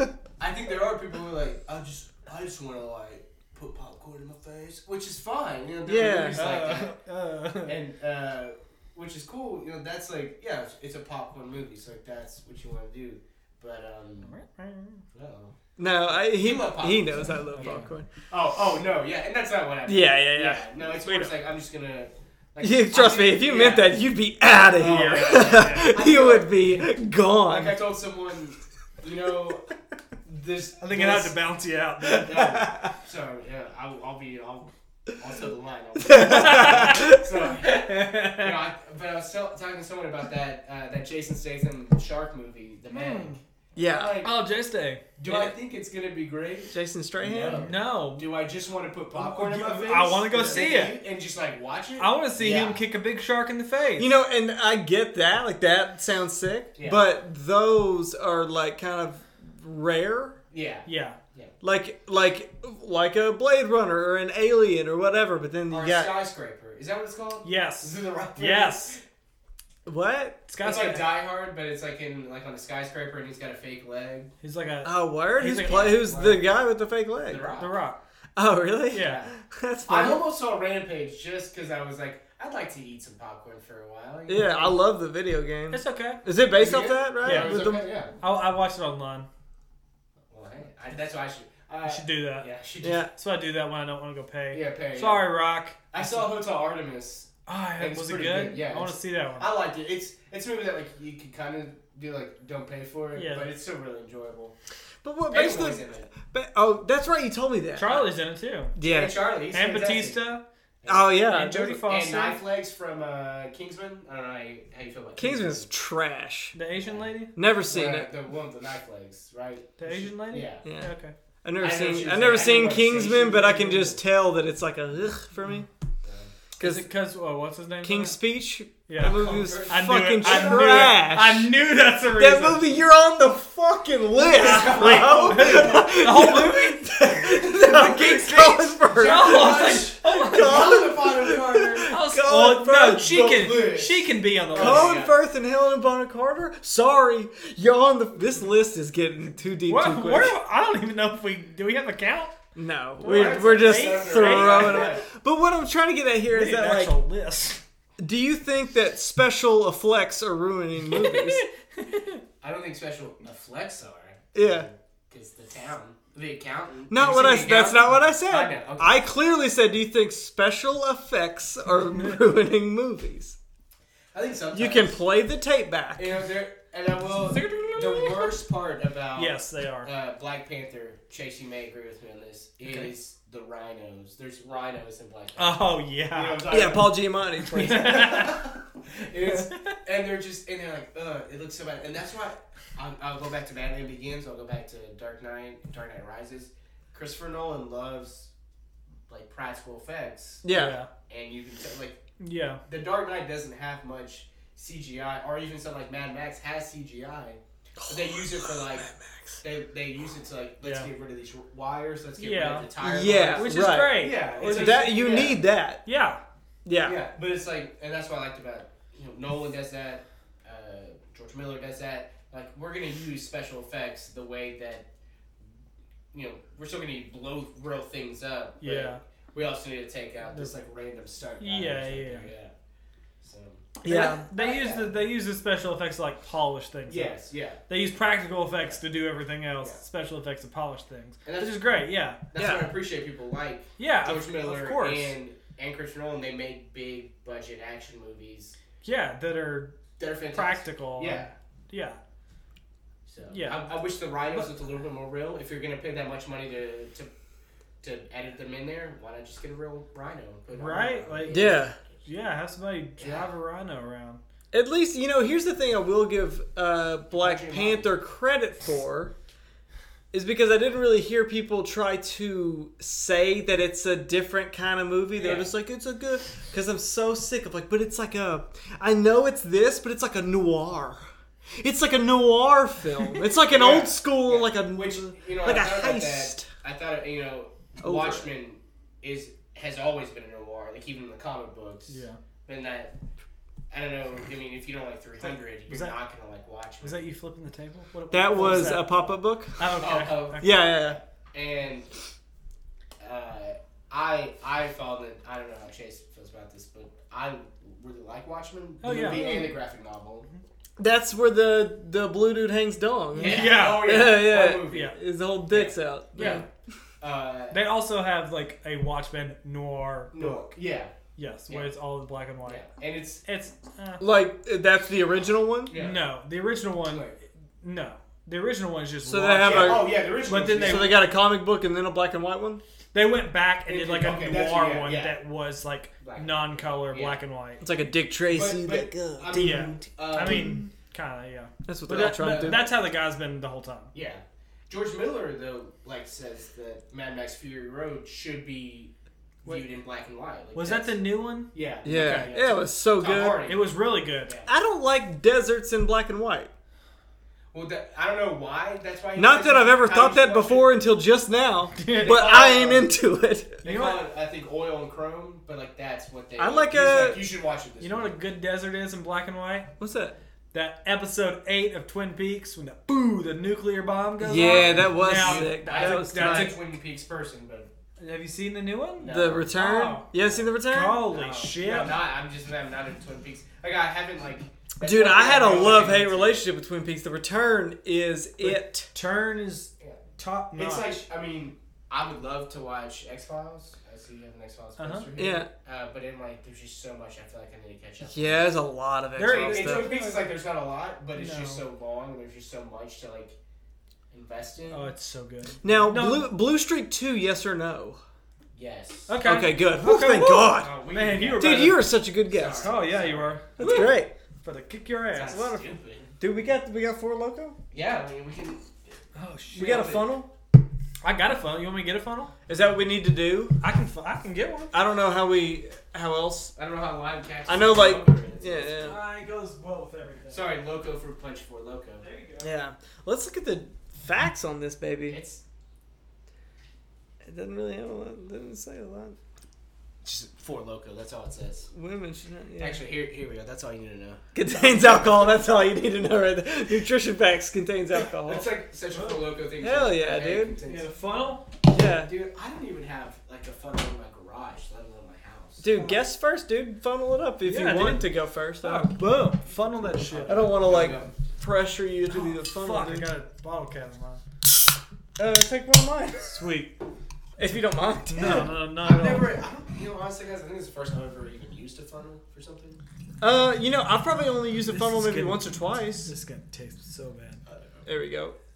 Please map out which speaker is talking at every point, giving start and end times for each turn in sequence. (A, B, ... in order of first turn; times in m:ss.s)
0:00.4-0:06.9 A
0:05.8-0:06.4 B
0:06.3-0:07.8 C
0:07.6-0:14.3 A
0:14.2-0:15.0 C
0:15.1-0:15.6 A
0:15.8-0:18.1 B
0:16.1-0:23.9 A
0:17.5-0:17.9 C
0:19.8-0:21.3 B
0:22.6-0:27.8 B
0:24.7-0:26.9 A
0:24.8-0:26.0 C
0:27.5-0:29.7 A
0:30.2-0:31.3 A
0:30.8-0:32.6 C
0:32.0-0:32.9 B
0:32.2-0:44.3 A
0:36.0-0:37.2 B
0:36.1-0:38.6 C
0:42.9-0:43.4 C
0:43.8-0:44.3 B
0:44.2-0:45.0 C
0:45.2-0:52.8 A
0:45.2-0:45.5 B
0:46.7-0:47.7 B
0:47.5-0:48.3 C
0:49.1-0:51.0 C
0:50.3-0:50.6 B
0:52.0-0:54.1 C
0:54.0-1:00.4 B
0:56.8-0:57.0 A
1:00.5-1:01.5 A
1:00.8-1:01.2 C
1:01.6-1:06.2 B
1:05.7-1:09.0 A
1:07.4-1:09.0 C
1:09.8-1:10.4 B
1:10.5-1:11.1 C
1:10.6-1:14.3 A
1:14.4-1:16.0 C
1:14.8-1:17.5 B
1:15.6-1:16.4 A
1:17.2-1:17.7 A
1:17.6-1:18.0 C
1:18.4-1:20.2 B
1:18.9-1:19.2 C
1:19.0-1:19.3 A
1:19.9-1:24.8 A
1:24.3-1:27.8 B
1:25.7-1:26.2 C
1:26.5-1:28.1 A
1:27.2-1:29.3 C
1:30.3-1:33.1 A
1:31.8-1:32.5 C
1:32.8-1:33.1 B
1:33.1-1:36.3 C
1:34.5-1:35.3 A
1:35.9-1:44.5 A
1:37.5-1:39.5 C
1:43.1-1:43.5 C
1:45.0-1:48.1 B
1:45.3-1:46.1 A
1:47.7-1:48.7 C
1:48.8-1:49.1 B
1:48.8-1:50.2 A
1:49.5-1:50.4 C
1:50.8-1:51.2 A
1:50.9-1:51.8 B
1:51.2-1:52.4 C
1:51.8-1:55.7 A
1:55.2-1:56.5 B
1:56.5-1:57.3 C
1:56.7-1:57.1 A
1:57.4-1:58.1 B
1:57.6-2:00.6 A
1:59.8-2:01.1 C
2:00.6-2:00.9 B
2:01.4-2:05.7 B
2:01.6-2:04.0 A
2:06.0-2:06.3 A
2:06.6-2:06.9 B
2:06.6-2:08.2 C
2:07.8-2:23.2 B
2:08.9-2:12.8 C
2:09.0-2:11.1 A
2:14.2-2:16.0 A
2:14.3-2:20.8 C
2:17.5-2:21.9 A
2:21.9-2:25.0 C
2:23.0-2:25.2 A
2:24.5-2:30.3 B
2:29.7-2:32.3 C
2:32.6-2:36.9 B
2:33.0-2:35.0 C
2:33.0-2:35.0 A
2:36.3-2:37.6 C
2:38.0-2:41.4 B
2:40.9-2:42.2 C
2:42.4-2:49.1 A
2:44.3-2:44.7 B
2:46.9-2:53.4 B
2:54.1-2:55.0 A
2:54.5-2:56.2 B
2:56.0-3:07.0 A
2:57.5-2:58.1 C
2:59.2-2:59.9 C
3:05.4-3:06.5 C
3:06.5-3:08.3 B
3:07.4-3:08.4 C
3:07.6-3:18.3 A
3:09.2-3:09.8 C
3:19.1-3:20.4 A
3:20.4-3:20.8 B
3:20.5-3:20.9 C
3:21.1-3:22.0 A
3:22.2-3:22.6 C
3:22.6-3:28.9 A
3:27.8-3:29.4 B
3:29.4-3:35.4 A
3:30.6-3:30.9 C
3:32.2-3:32.7 C
3:32.8-3:35.8 B
3:33.3-3:35.3 C
3:35.8-3:36.2 C
3:36.6-3:37.0 B
3:36.8-3:44.9 A
3:46.1-3:52.5 A
3:48.6-3:49.0 C
3:51.4-3:52.3 C
3:53.2-3:53.7 A
3:53.8-3:54.2 B
3:53.8-4:02.2 C
3:54.3-3:54.9 A
3:56.9-3:57.6 A
4:01.2-4:01.6 A
4:02.3-4:08.6 A
4:02.4-4:02.7 B
4:03.8-4:05.1 C
4:08.8-4:09.8 C
4:10.0-4:11.3 A
4:10.3-4:12.0 C
4:13.1-4:17.1 A
4:13.3-4:13.7 C
4:17.8-4:22.1 A
4:20.5-4:24.2 C
4:21.3-4:21.8 B
4:23.0-4:23.3 A
4:24.5-4:29.1 B
4:27.2-4:28.0 A
4:30.1-4:41.0 B
4:35.1-4:35.5 A
4:41.6-4:46.5 B
4:43.4-4:52.9 A
4:47.8-4:48.3 B
4:51.9-4:52.2 C
4:53.7-4:57.1 A
4:55.7-4:55.9 C
4:56.8-5:00.6 C
4:58.1-4:59.6 B
4:58.3-4:59.0 A
4:59.8-5:01.9 A
5:00.4-5:01.0 B
5:03.0-5:10.3 A
5:08.8-5:09.2 C
5:08.9-5:09.5 B
5:10.8-5:16.4 B
5:13.1-5:14.0 C
5:13.2-5:14.9 A
5:15.5-5:16.4 A
5:16.2-5:16.4 C
5:17.0-5:17.6 A
5:17.5-5:20.5 C
5:20.1-5:20.9 A
5:21.2-5:22.6 C
5:22.4-5:23.2 A
5:23.2-5:24.1 C
5:24.0-5:25.7 B
5:25.7-5:26.0 A
5:25.7-5:31.0 C
5:26.8-5:27.2 A
5:29.0-5:30.0 B
5:29.4-5:31.0 A
5:30.6-5:32.6 B
5:32.9-5:37.6 C
5:33.7-5:35.2 A
5:36.0-5:37.2 A
5:37.6-5:40.7 B
5:38.3-5:40.6 A
5:39.3-5:43.9 C
5:41.6-5:42.8 B
5:42.1-5:42.7 A
5:43.9-5:48.9 A
5:49.4-5:51.0 A
5:50.5-5:51.5 C
5:51.5-5:53.7 A
5:51.8-5:53.4 B
5:53.3-5:54.3 C
5:54.2-5:54.5 A
5:54.5-5:56.5 B
5:57.5-6:00.7 A
5:59.2-6:03.6 B
6:01.8-6:02.8 C
6:02.0-6:02.8 A
6:03.6-6:08.2 A
6:03.6-6:04.0 C
6:06.4-6:07.2 B
6:07.8-6:09.7 C
6:09.8-6:10.1 B
6:10.5-6:16.6 C
6:14.2-6:16.5 B
6:14.4-6:17.7 A
6:18.0-6:20.1 C
6:19.0-6:19.5 A
6:19.0-6:21.0 B
6:20.2-6:20.5 A
6:20.6-6:22.0 C
6:21.1-6:26.4 A
6:24.8-6:28.9 B
6:25.4-6:25.9 C
6:28.4-6:31.0 C
6:30.5-6:38.6 A
6:34.8-6:35.1 C
6:35.2-6:35.5 B
6:38.1-6:39.9 B
6:39.2-6:40.3 C
6:39.2-6:43.4 A
6:41.1-6:41.6 C
6:44.1-6:44.9 A
6:44.7-6:46.3 C
6:45.6-6:48.0 B
6:48.5-6:49.1 A
6:49.1-6:51.9 C
6:49.2-6:50.7 B
6:50.5-6:53.9 A
6:51.4-6:52.7 B
6:52.5-6:55.7 C
6:53.6-6:54.1 B
6:55.1-6:56.1 A
6:56.2-6:57.6 B
6:57.7-6:58.7 A
6:59.2-7:00.0 C
6:59.5-7:00.3 B
6:59.5-7:00.0 A
7:01.0-7:02.3 C
7:02.5-7:03.5 B
7:03.6-7:04.7 C
7:04.7-7:06.5 B
7:06.6-7:08.9 A
7:07.5-7:09.0 B
7:08.8-7:10.5 C
7:10.3-7:12.0 A
7:12.0-7:12.5 C
7:12.4-7:15.2 B
7:15.1-7:15.4 A
7:17.2-7:19.2 B
7:20.0-7:21.7 A
7:21.7-7:22.8 B
7:22.6-7:24.2 A
7:24.3-7:28.5 B
7:28.2-7:30.9 A
7:28.9-7:29.2 C
7:29.6-7:30.6 B
7:30.6-7:31.5 C
7:31.7-7:32.1 B
7:32.0-7:35.7 A
7:35.6-7:39.2 B
7:37.4-7:40.4 C
7:40.0-7:41.1 A
7:40.2-7:43.1 B
7:42.1-7:44.2 C
7:45.2-7:46.4 B
7:46.3-7:46.7 C
7:47.4-7:48.5 B
7:48.1-7:49.3 C
7:48.8-7:52.8 A
7:53.2-7:56.1 B
7:54.6-7:57.4 C
7:57.4-7:57.9 A
7:57.8-7:58.4 B